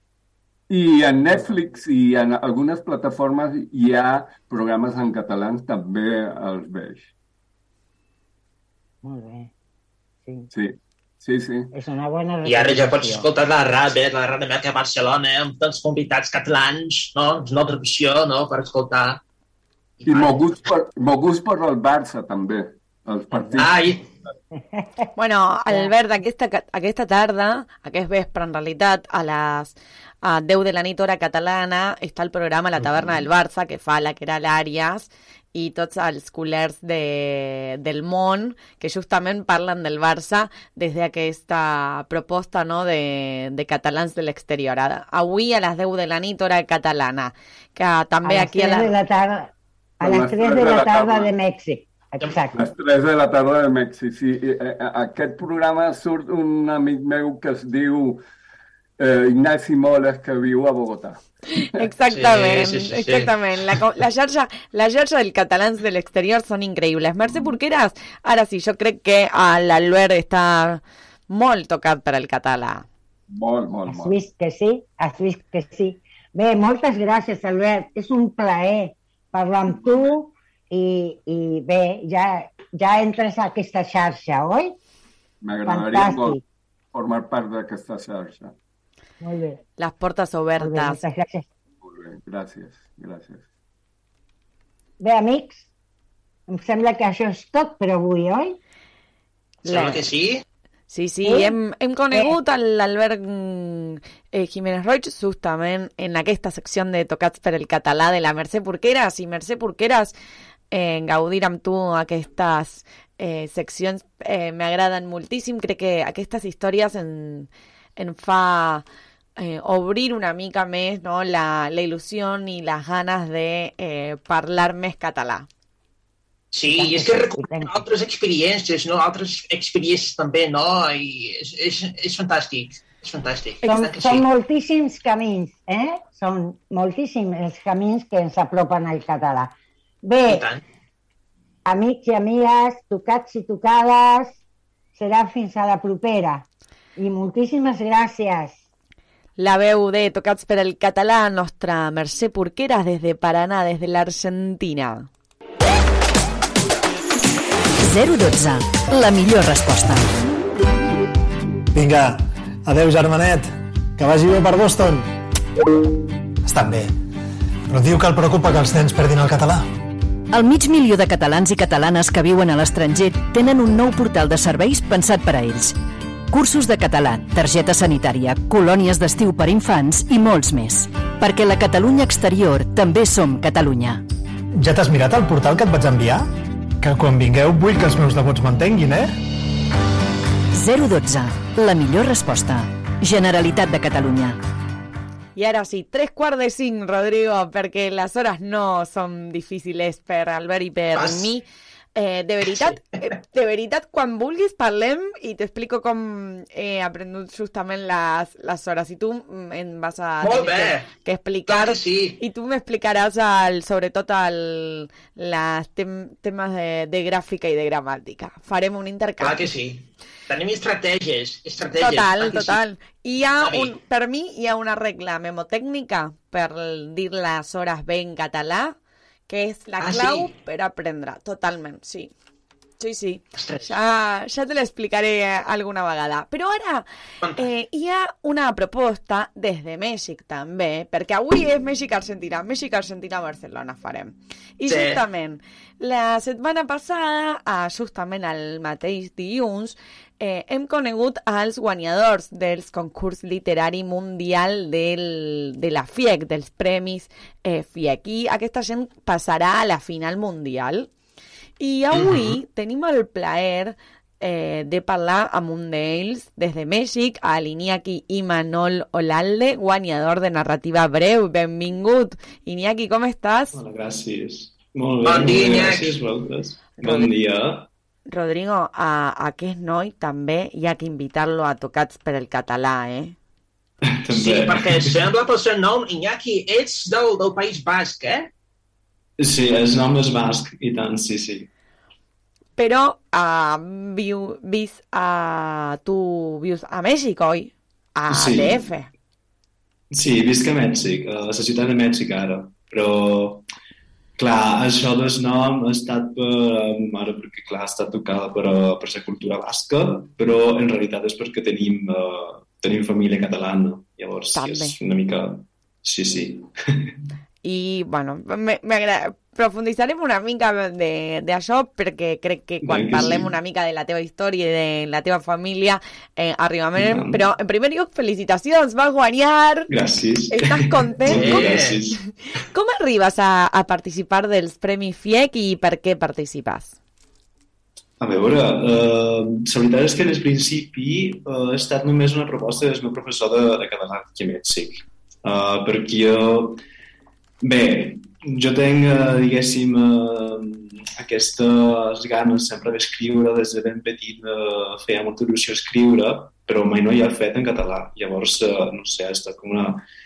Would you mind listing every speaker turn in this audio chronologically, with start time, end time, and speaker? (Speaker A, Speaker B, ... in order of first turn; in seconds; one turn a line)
Speaker A: 0.7-7.1
Speaker B: 9.0-9.5
Speaker A: 10.5-11.7
Speaker B: 11.7-13.3
Speaker C: 12.4-19.2
Speaker C: 20.0-20.6
Speaker A: 20.1-23.8
Speaker C: 23.6-24.1
Speaker B: 24.6-25.1
Speaker D: 25.1-48.9
Speaker B: 48.2-52.6
Speaker A: 50.0-51.3
Speaker A: 52.5-58.2
Speaker A: 59.0-61.2
Speaker D: 61.6-72.8
Speaker C: 62.1-63.3
Speaker A: 73.3-74.2
Speaker B: 73.9-84.8
Speaker A: 85.4-86.4
Speaker B: 85.7-86.4
Speaker A: 86.9-88.5
Speaker B: 89.2-89.6
Speaker D: 89.8-91.0
Speaker B: 90.6-91.5
Speaker A: 91.8-93.4
Speaker B: 95.0-95.7
Speaker B: 96.5-98.6
Speaker D: 99.6-100.0
Speaker C: 99.7-100.4
Speaker D: 100.9-110.1
Speaker B: 101.2-101.5
Speaker D: 110.7-118.8
Speaker D: 119.4-125.5
Speaker C: 126.5-134.2
Speaker B: 126.7-127.8
Speaker B: 133.6-140.4
Speaker C: 140.3-140.6
Speaker B: 141.7-144.4
Speaker B: 144.9-146.4
Speaker B: 146.9-148.6
Speaker D: 149.4-155.1
Speaker E: 157.8-160.1
Speaker F: 161.7-165.1
Speaker F: 166.4-166.9
Speaker F: 167.7-169.7
Speaker E: 170.3-184.0
Speaker F: 184.6-186.3
Speaker F: 186.8-189.1
Speaker E: 190.5-194.4
Speaker D: 195.3-201.4
Speaker C: 200.9-201.3
Speaker D: 201.9-219.4
Speaker C: 210.2-210.9
Speaker C: 211.5-212.2
Speaker C: 219.2-222.6
Speaker D: 221.8-228.8
Speaker C: 223.4-223.7
Speaker D: 229.3-232.1
Speaker C: 229.8-230.3
Speaker D: 232.8-260.9
Speaker C: 233.3-233.7
Speaker C: 237.2-237.4
Speaker C: 244.7-245.0
Speaker D: 261.6-273.6
Speaker C: 261.9-262.2
Speaker G: 273.5-277.7
Speaker C: 275.0-275.9
Speaker D: 276.8-277.1
Speaker D: 278.1-283.1
Speaker G: 284.0-285.0
Speaker C: 284.1-288.3
Speaker G: 289.2-291.5
Speaker D: 292.6-298.9
Speaker G: 298.1-298.7
Speaker G: 299.9-303.5
Speaker G: 304.1-316.9
Speaker D: 314.3-314.7
Speaker D: 317.4-329.7
Speaker G: 322.6-323.4
Speaker G: 326.7-327.2
Speaker G: 329.7-332.0
Speaker D: 330.3-331.6
Speaker C: 331.1-331.8
Speaker D: 332.4-336.7
Speaker G: 338.0-346.6
Speaker G: 347.4-359.8